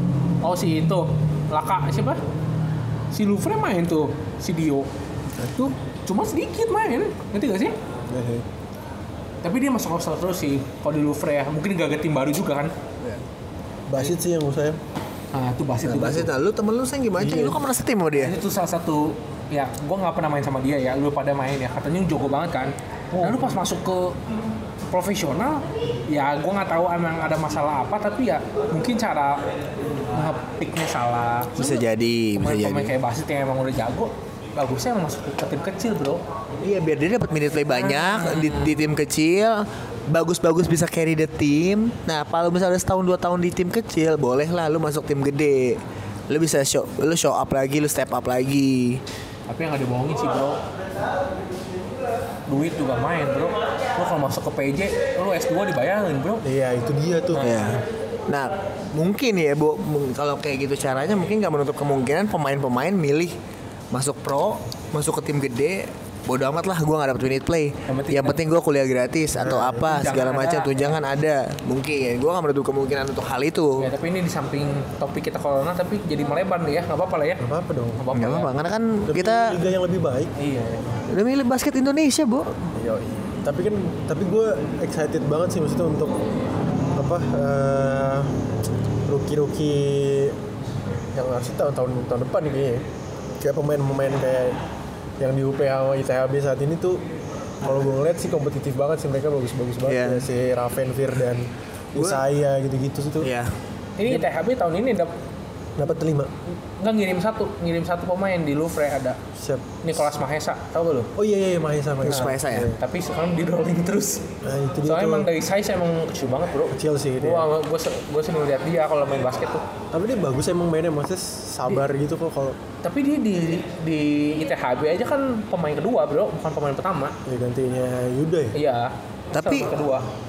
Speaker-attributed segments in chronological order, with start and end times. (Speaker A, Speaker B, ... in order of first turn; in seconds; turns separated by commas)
Speaker A: 0.4-2.2, Speaker A: 3.1-4.9, Speaker B: 5.4-5.7, Speaker A: 5.6-7.7, Speaker B: 8.1-8.4, Speaker A: 9.4-12.7, Speaker B: 13.9-14.8, Speaker A: 15.3-16.3, Speaker C: 15.8-18.4, Speaker B: 17.2-17.6, Speaker A: 18.1-24.2, Speaker B: 23.2-23.6, Speaker A: 24.9-29.4, Speaker A: 30.1-31.8, Speaker C: 31.6-32.9, Speaker A: 32.4-36.2, Speaker C: 36.6-49.0, Speaker A: 37.7-38.8, Speaker A: 49.5-50.6, Speaker A: 52.5-56.4, Speaker B: 56.4-57.5, Speaker A: 57.3-57.7, Speaker C: 57.4-63.3, Speaker C: 63.9-73.9, Speaker A: 67.9-68.4, Speaker B: 69.3-69.8, Speaker A: 69.8-71.0, Speaker A: 73.8-77.4, Speaker B: 77.4-78.0, Speaker A: 78.0-78.5, Speaker C: 78.1-79.5, Speaker B: 79.1-80.3, Speaker A: 80.4-81.0, Speaker C: 81.1-82.7, Speaker B: 82.8-86.2, Speaker B: 86.9-88.4, Speaker B: 89.1-90.4, Speaker B: 91.1-92.8, Speaker B: 93.4-94.6, Speaker B: 95.2-97.0, Speaker B: 97.6-103.3, Speaker C: 99.8-100.2, Speaker C: 102.0-102.2, Speaker C: 103.2-103.5, Speaker A: 104.0-105.1, Speaker B: 105.8-106.3, Speaker A: 106.8-109.2, Speaker B: 109.3-109.8, Speaker A: 109.8-111.1, Speaker B: 111.1-112.8, Speaker C: 112.0-112.7, Speaker A: 112.1-114.2, Speaker B: 114.4-115.3, Speaker A: 114.8-119.6, Speaker B: 116.7-117.5, Speaker B: 119.9-122.6, Speaker A: 122.8-127.1, Speaker B: 127.2-128.6, Speaker A: 128.5-130.1, Speaker C: 129.3-129.7